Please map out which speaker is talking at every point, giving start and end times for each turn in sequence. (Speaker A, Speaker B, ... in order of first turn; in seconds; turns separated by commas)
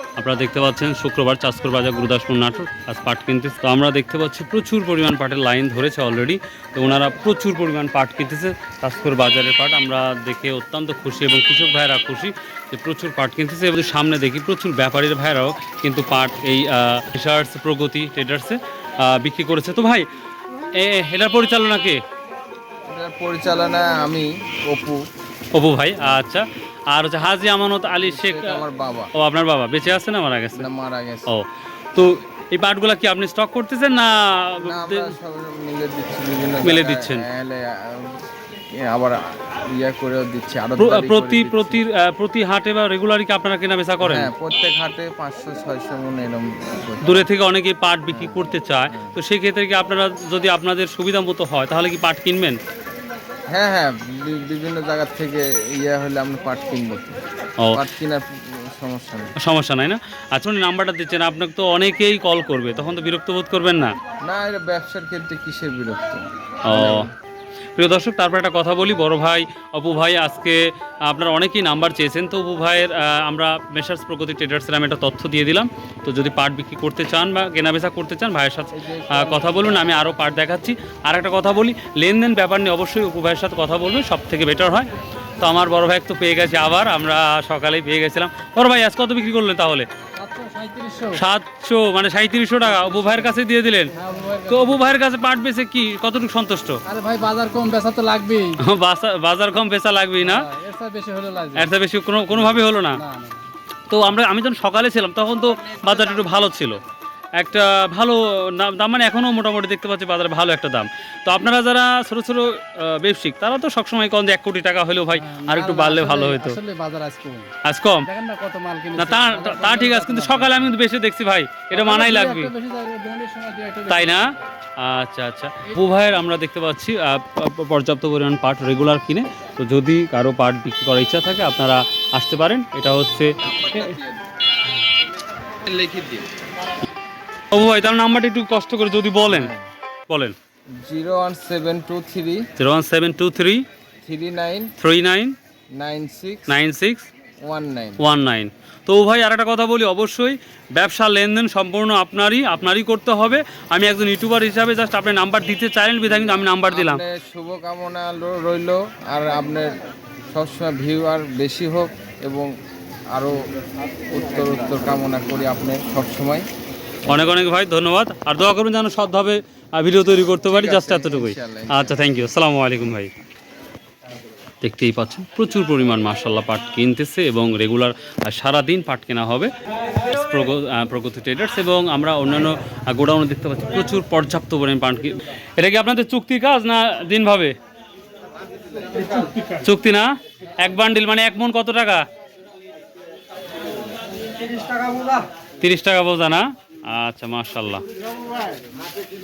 Speaker A: 0.2-20.1, Speaker A: 20.7-22.0, Speaker B: 22.9-25.0, Speaker A: 25.5-28.6, Speaker B: 28.0-29.1, Speaker A: 29.1-30.6, Speaker B: 30.6-31.3, Speaker A: 31.3-35.1, Speaker B: 34.6-38.2, Speaker A: 36.6-37.2, Speaker B: 38.7-41.8, Speaker A: 40.8-44.3, Speaker B: 44.0-47.2, Speaker A: 47.0-52.6, Speaker B: 48.1-49.1, Speaker B: 53.5-57.2, Speaker B: 57.7-59.3, Speaker A: 59.4-63.9, Speaker B: 64.3-67.1, Speaker A: 66.7-67.0, Speaker A: 67.8-89.9, Speaker B: 78.7-80.6, Speaker C: 90.2-91.2, Speaker A: 91.1-94.0, Speaker C: 92.7-93.4, Speaker C: 93.9-94.9, Speaker A: 94.5-96.8, Speaker C: 96.8-98.6, Speaker A: 98.6-100.5, Speaker C: 100.2-101.7, Speaker A: 101.5-103.0, Speaker C: 102.3-103.5, Speaker A: 103.9-106.8, Speaker A: 107.4-116.6, Speaker C: 115.1-120.7, Speaker A: 117.6-118.1, Speaker A: 119.0-122.5, Speaker C: 121.7-124.3, Speaker A: 123.9-133.4, Speaker B: 133.4-134.2, Speaker B: 135.4-136.3, Speaker A: 137.5-139.5, Speaker B: 139.3-139.6, Speaker A: 140.1-140.3, Speaker B: 140.8-142.4, Speaker A: 142.6-143.6, Speaker B: 144.0-144.7, Speaker A: 144.8-145.3, Speaker B: 145.8-146.6, Speaker A: 146.5-147.1, Speaker B: 147.4-148.0, Speaker A: 148.0-157.0, Speaker B: 156.2-159.7, Speaker B: 160.3-162.5, Speaker B: 164.1-166.4, Speaker A: 167.1-173.1, Speaker B: 170.4-172.0, Speaker A: 174.6-179.5, Speaker A: 180.0-187.5, Speaker A: 189.5-190.1, Speaker A: 190.6-192.0, Speaker A: 195.6-197.8